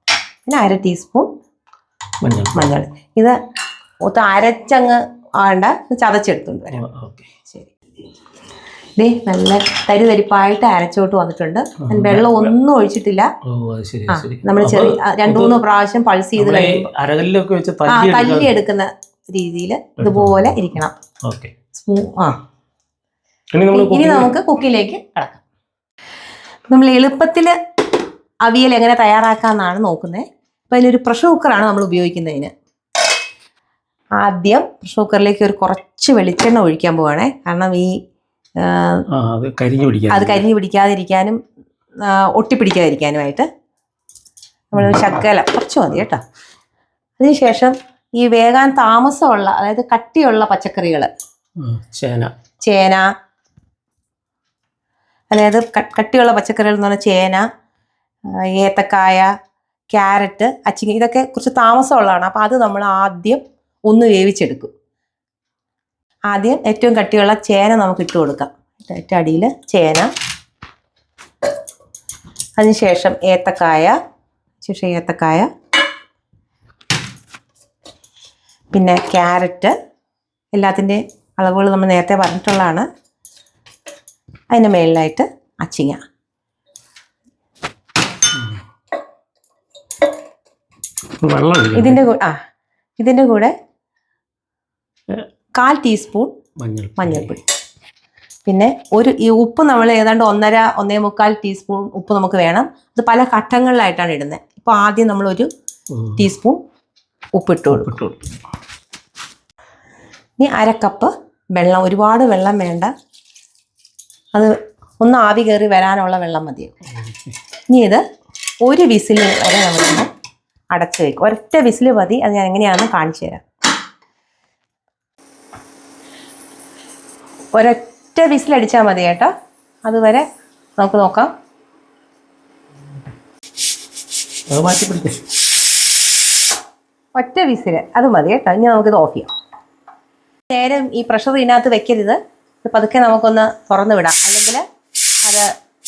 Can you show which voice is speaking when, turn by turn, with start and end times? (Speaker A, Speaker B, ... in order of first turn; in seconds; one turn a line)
Speaker A: 0.5-1.3
Speaker B: 2.2-2.7
Speaker A: 2.5-3.4
Speaker A: 4.0-6.8
Speaker B: 6.7-7.3
Speaker A: 9.0-13.3
Speaker B: 11.8-12.5
Speaker B: 13.4-15.6
Speaker A: 14.1-16.9
Speaker B: 16.4-18.5
Speaker A: 17.9-20.9
Speaker B: 20.0-20.7
Speaker B: 21.2-21.5
Speaker A: 21.8-22.3
Speaker B: 23.5-24.3
Speaker A: 23.7-25.4
Speaker A: 26.7-27.5
Speaker A: 28.4-32.5
Speaker A: 34.2-37.9
Speaker A: 38.6-39.0
Speaker B: 39.1-40.4
Speaker A: 40.1-41.4
Speaker A: 42.0-43.5
Speaker A: 44.7-46.2
Speaker A: 47.2-51.1
Speaker B: 51.6-52.3
Speaker A: 52.6-53.1
Speaker A: 55.3-57.4
Speaker A: 58.5-59.3
Speaker A: 59.9-64.7
Speaker A: 66.3-70.1
Speaker A: 72.6-73.9
Speaker A: 74.6-75.5
Speaker A: 78.7-79.7
Speaker A: 80.5-82.9
Speaker A: 84.5-86.0
Speaker B: 88.3-88.6
Speaker B: 91.2-92.0
Speaker A: 91.8-92.3
Speaker A: 93.0-93.5
Speaker A: 95.5-96.3
Speaker B: 96.6-97.4
Speaker A: 97.0-97.4
Speaker A: 98.5-105.5
Speaker B: 105.9-106.2
Speaker A: 106.2-106.6
Speaker A: 107.3-108.0
Speaker B: 107.7-108.1
Speaker A: 110.4-112.9
Speaker A: 114.3-116.7
Speaker A: 117.7-118.0
Speaker A: 118.6-120.1
Speaker A: 120.7-123.4
Speaker A: 127.5-129.3
Speaker A: 129.8-130.2
Speaker A: 130.8-131.3
Speaker B: 134.5-135.2
Speaker A: 137.1-139.3
Speaker A: 140.5-144.6